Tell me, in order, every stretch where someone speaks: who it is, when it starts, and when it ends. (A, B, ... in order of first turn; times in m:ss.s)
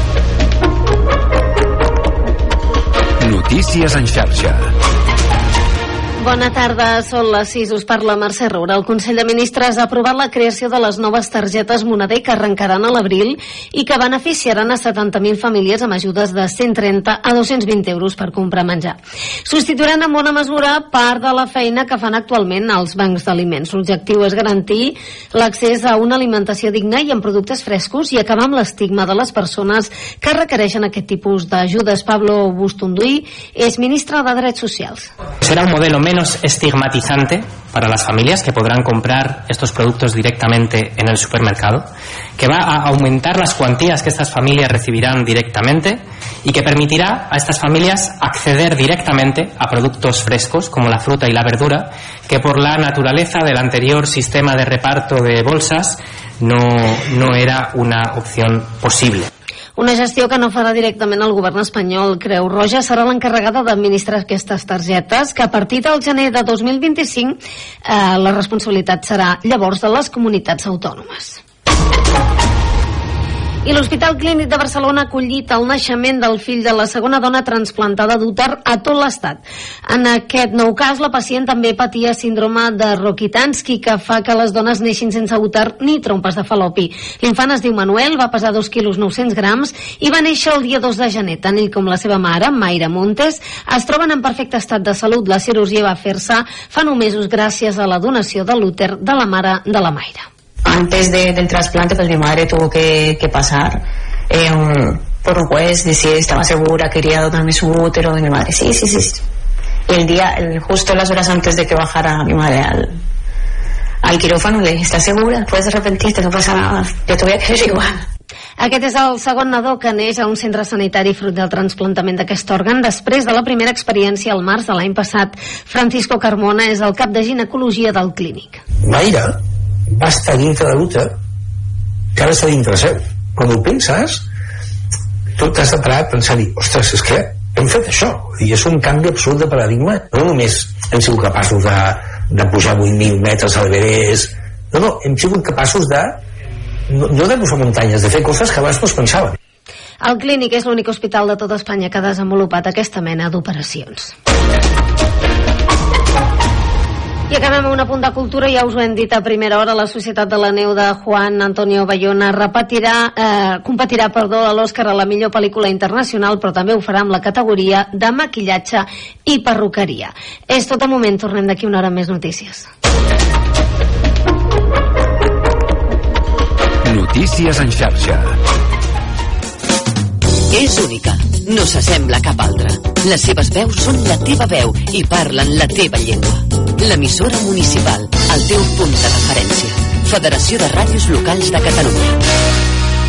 0:03.2-0:04.7 A
0:06.2-0:35.1 B
0:35.4-0:59.3 C
0:59.8-1:11.4 B
1:13.6-1:40.2 B
1:40.6-1:49.2 D
1:49.9-1:52.9 D
1:54.0-1:58.0 D
1:58.6-2:08.6 B
2:08.8-2:09.4 E
2:09.9-2:11.1 E
2:12.1-2:14.2 E
2:15.4-2:26.2 E
2:26.9-2:29.4 E
2:30.0-2:34.1 B
2:37.3-2:52.7 B
2:56.8-2:58.4 A
3:00.5-3:12.2 F